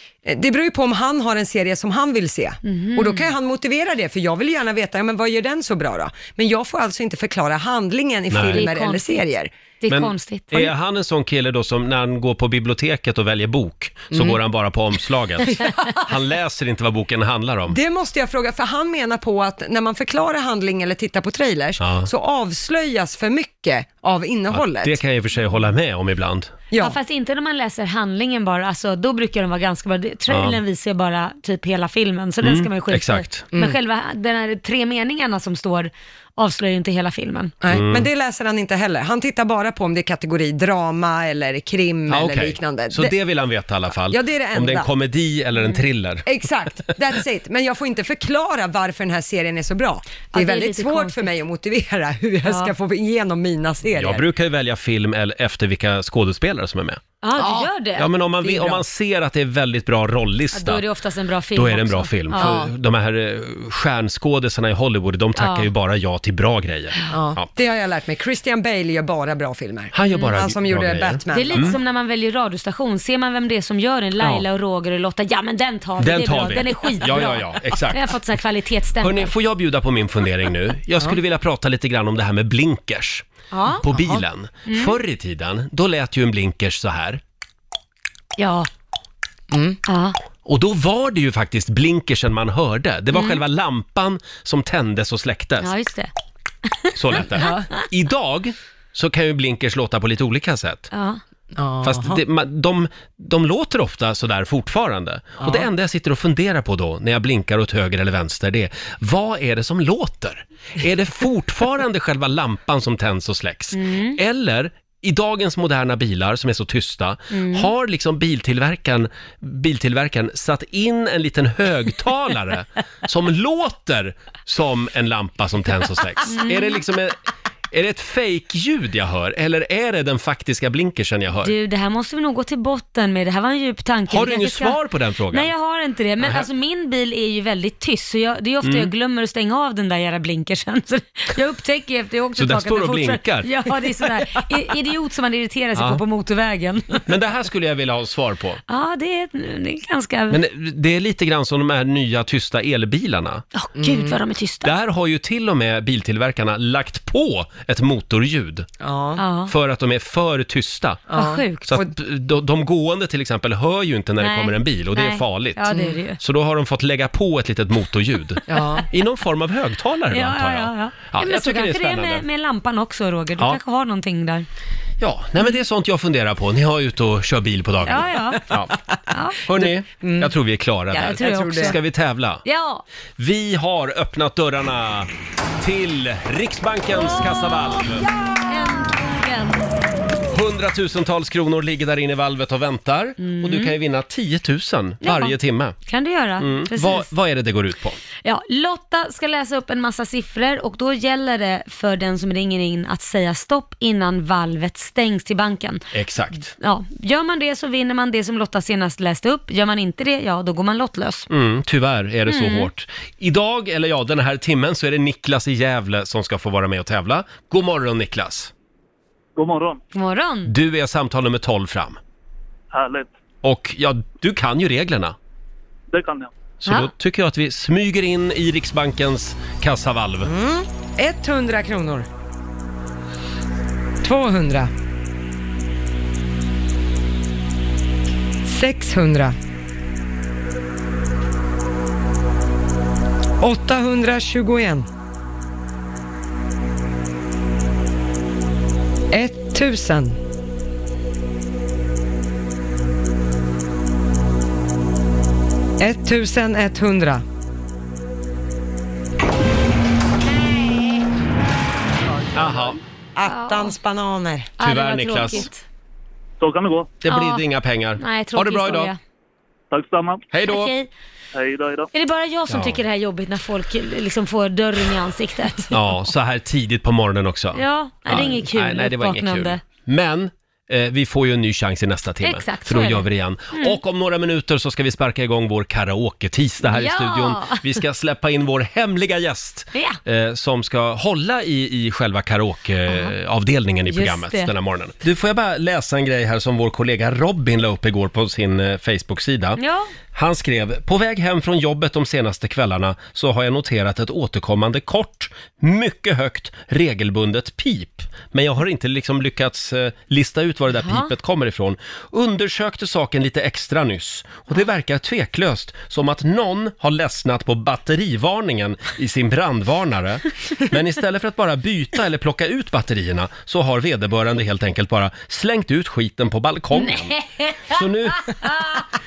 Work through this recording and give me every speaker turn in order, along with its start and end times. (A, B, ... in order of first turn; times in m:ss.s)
0:00.2-0:09.5 A
0:02.6-0:03.3 B
0:08.3-0:08.6 C
0:08.5-0:09.2 B
0:09.8-0:10.7 B
0:09.9-0:17.8 C
0:14.1-0:14.4 A
0:15.5-0:16.0 A
0:17.7-0:25.0 A
0:21.8-0:22.1 C
0:24.5-0:26.5 C
0:26.7-0:27.0 A
0:26.8-0:37.5 B
0:30.3-0:30.6 C
0:32.4-0:33.4 C
0:37.6-0:43.1 A
0:37.7-0:38.1 C
0:42.1-0:46.3 C
0:44.1-0:44.9 A
0:46.2-0:54.2 A
0:50.3-0:51.3 B
0:52.4-0:52.7 B
0:54.0-0:57.0 C
0:57.2-0:58.1 B
0:57.4-0:57.7 A
0:58.0-1:00.8 C
0:58.4-0:58.8 A
1:00.5-1:02.6 B
1:01.5-1:07.5 C
1:02.4-1:02.7 A
1:05.4-1:05.7 B
1:07.1-1:11.8 A
1:09.9-1:11.8 C
1:11.3-1:19.3 B
1:14.2-1:14.4 C
1:16.0-1:18.1 C
1:19.0-1:23.3 C
1:23.5-1:23.8 B
1:23.8-1:27.2 C
1:23.9-1:24.2 A
1:24.7-1:25.0 B
1:28.4-1:28.7 B
1:29.5-1:29.8 A
1:29.9-1:30.2 B
1:30.4-1:35.7 C
1:33.1-1:33.4 B
1:35.6-1:36.1 B
1:36.7-1:37.8 B
1:36.9-1:40.9 C
1:37.3-1:37.7 A
1:40.9-1:41.2 B
1:41.5-1:42.2 A
1:41.8-2:07.2 C
1:45.4-1:45.7 A
1:53.7-1:54.2 B
1:57.3-1:57.7 B
2:06.3-2:06.8 B
2:07.7-2:11.5 C
2:11.4-2:27.0 B
2:14.1-2:15.5 C
2:18.6-2:18.9 C
2:22.4-2:23.5 C
2:25.8-2:26.0 C
2:27.0-2:28.6 C
2:28.7-2:30.4 B
2:30.3-2:33.4 C
2:33.5-2:34.7 B
2:33.8-2:34.2 A
2:34.6-2:38.7 C
2:38.8-2:39.2 A
2:39.2-2:39.5 B
2:39.5-2:41.0 C
2:41.1-2:41.9 A
2:41.1-2:41.8 B
2:41.7-2:45.6 C
2:44.2-2:46.2 B
2:45.7-2:46.0 A
2:46.2-2:52.2 C
2:48.5-2:48.8 A
2:50.1-2:54.5 B
2:55.0-2:58.7 C
2:57.8-2:58.4 B
2:59.1-2:59.4 B
2:59.4-3:02.4 C
2:59.6-3:00.3 A
3:00.9-3:01.8 B
3:01.2-3:01.8 A
3:02.4-3:02.8 B
3:03.2-3:08.1 C
3:07.0-3:09.7 B
3:10.3-3:15.8 C
3:13.2-3:13.7 B
3:15.0-3:17.1 B
3:16.4-3:18.0 C
3:18.2-3:25.8 B
3:25.9-3:26.5 C
3:26.5-3:31.3 B
3:31.3-3:38.5 C
3:32.3-3:32.7 B
3:39.4-3:39.8 D
3:39.9-3:40.5 B
3:40.5-3:42.0 C
3:42.7-3:43.1 D
3:43.4-3:45.2 C
3:45.9-3:46.3 D
3:46.6-3:50.3 C
3:50.2-3:52.1 A
3:54.0-3:54.7 A
3:58.4-3:59.3 A
4:03.4-4:04.9 A
4:09.1-4:10.2 A
4:15.8-4:17.2 A
4:22.1-4:22.8 D
4:22.3-4:22.8 C
4:23.2-4:24.5 A
4:23.2-4:23.8 B
4:24.6-4:25.6 B
4:24.6-4:25.5 C
4:26.4-4:26.9 D
4:27.0-4:28.9 C
4:27.0-4:27.4 B
4:28.0-4:29.0 B
4:29.7-4:30.2 D
4:30.3-4:30.7 C
4:30.4-4:30.9 B
4:31.3-4:31.9 D
4:31.9-4:36.1 B
4:32.5-4:32.8 C
4:35.7-4:59.6 C
4:37.5-4:39.6 B
4:42.2-4:43.8 B
4:46.6-4:47.8 B
4:49.7-4:50.0 B
4:52.9-4:53.1 B
4:53.9-4:54.5 B
4:59.6-4:59.9 B
5:00.1-5:27.1 C
5:10.7-5:11.1 B
5:26.7-5:27.7 B
5:27.7-5:28.4 C
5:28.3-5:28.5 B